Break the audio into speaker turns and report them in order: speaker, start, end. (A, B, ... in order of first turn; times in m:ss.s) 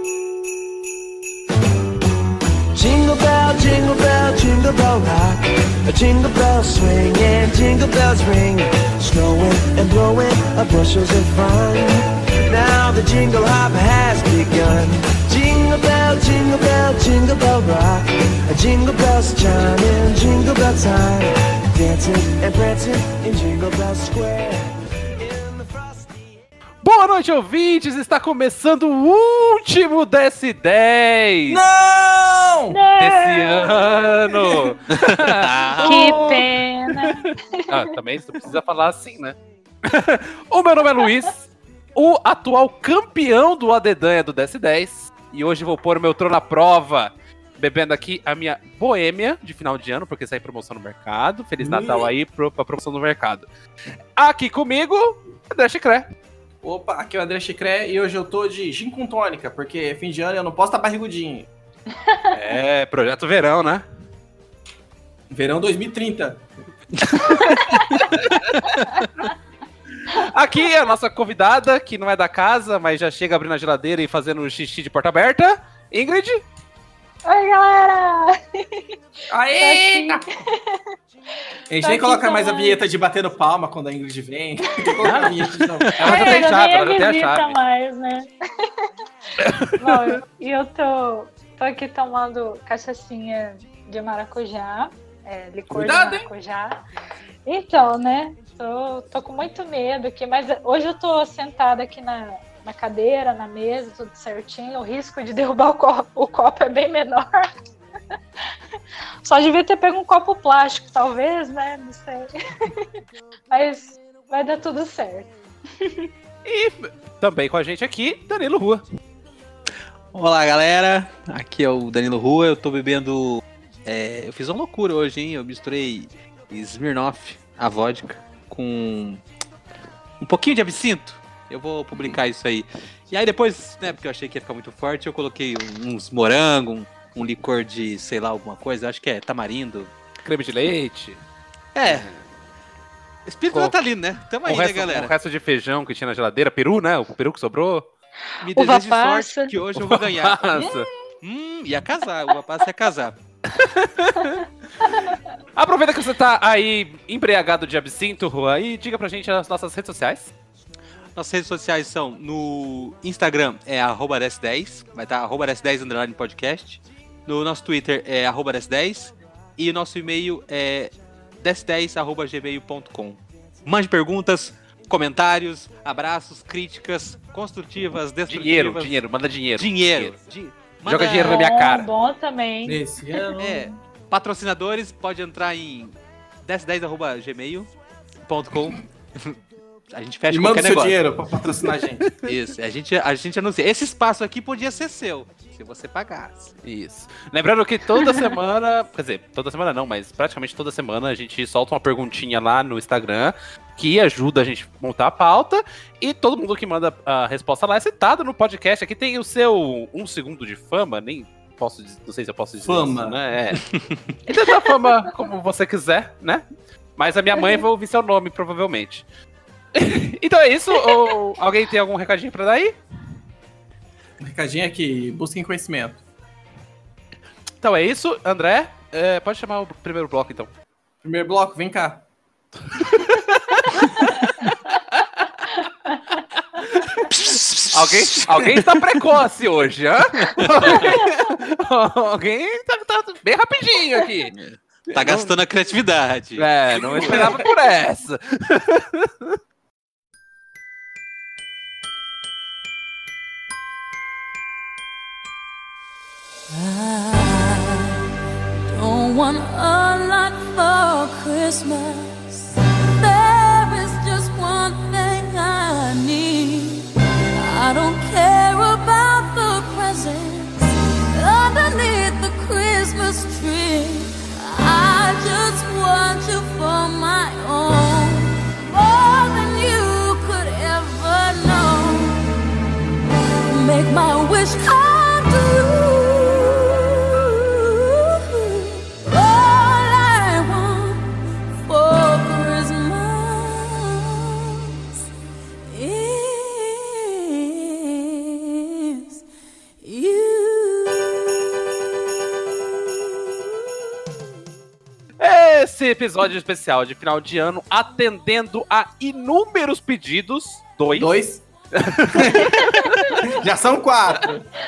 0:02.7-0:26.3 A
0:26.8-0:31.6 B
0:31.5-0:32.8 C
0:32.7-0:34.1 D
0:33.0-0:36.2 B
0:34.9-0:36.3 E
0:35.8-0:36.5 C
0:35.8-0:37.9 D
0:37.7-0:53.5 B
0:51.6-0:52.1 C
0:54.2-0:56.1 B
0:56.6-1:01.5 C
1:01.9-1:02.4 D
1:02.3-1:03.8 B
1:05.3-1:06.4 C
1:07.7-1:08.1 D
1:10.1-1:16.4 B
1:17.2-1:18.8 D
1:19.3-1:20.2 C
1:19.6-1:20.8 D
1:21.7-1:26.4 C
1:21.8-1:22.8 D
1:25.0-1:27.6 B
1:26.0-1:28.9 D
1:29.4-1:30.2 B
1:29.7-1:36.8 D
1:35.7-1:36.3 B
1:37.5-1:47.5 D
1:49.2-1:52.9 D
1:53.5-1:56.1 D
1:56.4-1:58.8 B
2:00.1-2:09.2 E
2:10.2-2:19.9 E
2:20.2-2:21.2 B
2:21.8-2:22.1 E
2:21.9-2:22.2 B
2:23.2-2:25.1 E
2:23.5-2:23.8 B
2:24.4-2:27.8 B
2:28.4-2:33.2 E
2:28.5-2:29.6 D
2:29.8-2:30.9 B
2:33.5-2:34.4 B
2:34.2-2:35.2 D
2:35.6-2:40.3 B
2:41.2-2:59.0 E
2:58.3-3:00.2 B
2:59.6-3:01.5 E
3:00.8-3:01.9 B
3:01.0-3:03.7 D
3:02.7-3:03.7 C
3:03.4-3:07.7 E
3:08.2-3:09.4 E
3:09.9-3:11.0 E
3:10.3-3:12.2 C
3:12.2-3:16.5 E
3:16.6-3:33.6 B
3:32.6-3:33.6 C
3:34.3-3:36.4 B
3:37.0-3:39.1 B
3:37.4-3:37.6 D
3:39.8-3:42.8 B
3:44.2-3:46.0 C
3:47.6-3:50.5 B
3:51.0-3:52.0 C
3:52.8-3:53.2 B
3:56.9-3:59.0 E
3:57.7-4:04.4 B
4:00.1-4:01.0 E
4:00.5-4:01.0 C
4:04.3-4:07.4 E
4:04.9-4:05.4 B
4:06.4-4:09.4 B
4:06.7-4:07.4 C
4:16.5-4:18.0 F
4:18.7-4:42.3 F
4:43.5-4:51.2 F
4:51.7-4:54.8 F
4:55.7-4:59.2 F
4:59.8-5:03.7 F
5:05.2-5:11.1 B
5:10.9-5:11.4 C
5:11.8-5:13.2 B
5:12.1-5:12.6 C
5:12.9-5:13.2 D
5:13.2-5:14.5 C